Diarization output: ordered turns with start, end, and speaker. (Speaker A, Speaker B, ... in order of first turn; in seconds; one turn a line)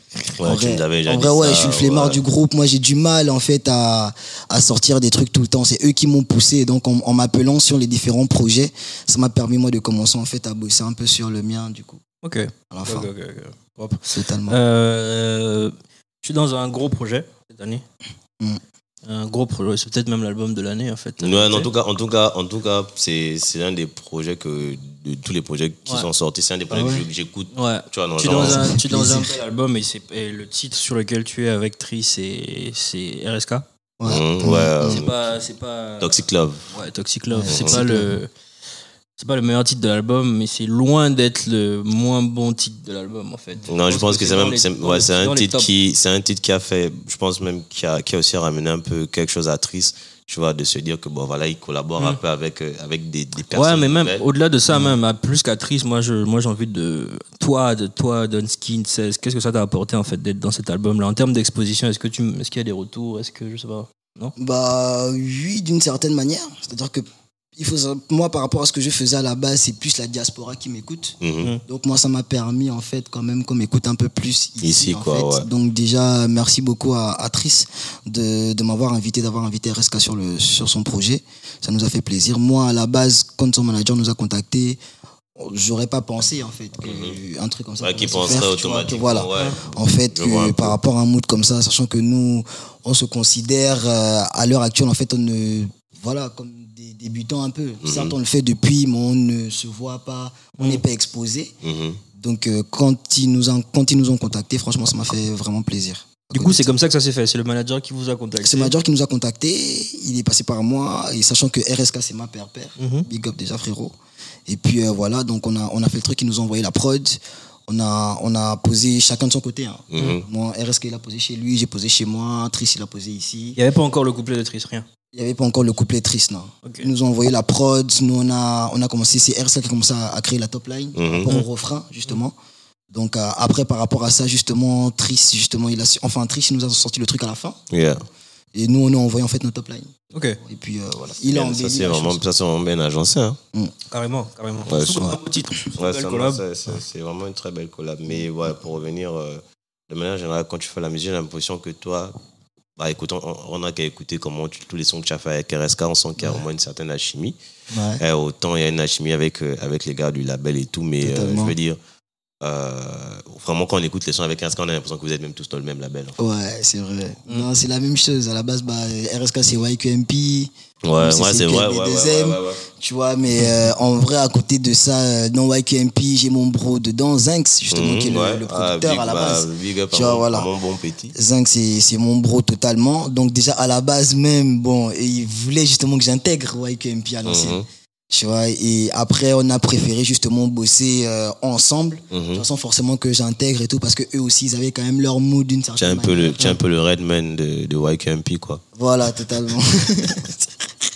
Speaker A: 0.4-2.2
Speaker B: 0.4-12.0
Speaker C: 12.2-17.8
Speaker B: 12.7-13.1
Speaker B: 14.1-14.6
Speaker C: 19.0-21.7
Speaker A: 21.2-28.7
Speaker B: 26.7-27.1
Speaker C: 27.5-33.6
Speaker B: 28.3-29.4
Speaker B: 34.0-35.0
Speaker A: 34.1-35.3
Speaker C: 34.8-36.1
Speaker A: 36.0-36.7
Speaker C: 36.7-38.3
Speaker B: 37.3-38.1
Speaker A: 37.5-37.8
Speaker C: 39.2-45.7
Speaker A: 43.7-54.2
Speaker C: 53.5-64.3
Speaker B: 54.7-55.0
Speaker B: 64.4-67.0
Speaker B: 67.6-84.8
Speaker A: 71.2-71.5
Speaker A: 74.6-75.5
Speaker B: 85.3-101.5
Speaker A: 86.8-87.2
Speaker A: 87.8-90.8
Speaker A: 97.8-98.1
Speaker C: 100.6-100.8
Speaker A: 101.6-102.0
Speaker B: 102.1-106.7
Speaker C: 106.3-108.7
Speaker B: 108.4-113.9
Speaker C: 112.8-113.1
Speaker B: 114.5-123.6
Speaker A: 119.9-120.2
Speaker C: 123.5-124.8
Speaker B: 125.1-132.3
Speaker C: 126.6-126.9
Speaker A: 130.9-131.3
Speaker B: 132.9-137.6
Speaker A: 137.7-138.0
Speaker B: 138.5-142.2
Speaker C: 140.1-140.4
Speaker A: 141.3-143.4
Speaker C: 143.9-146.4
Speaker A: 144.7-145.2
Speaker A: 145.8-152.1
Speaker A: 152.8-157.3
Speaker B: 157.7-158.0
Speaker A: 158.0-161.8
Speaker B: 161.0-161.5
Speaker A: 162.4-166.2
Speaker B: 166.2-180.5
Speaker A: 170.8-172.6
Speaker A: 177.7-181.2
Speaker B: 181.1-187.6
Speaker A: 187.2-187.7
Speaker B: 188.1-196.6
Speaker A: 192.1-192.4
Speaker A: 195.8-198.6
Speaker B: 198.7-200.5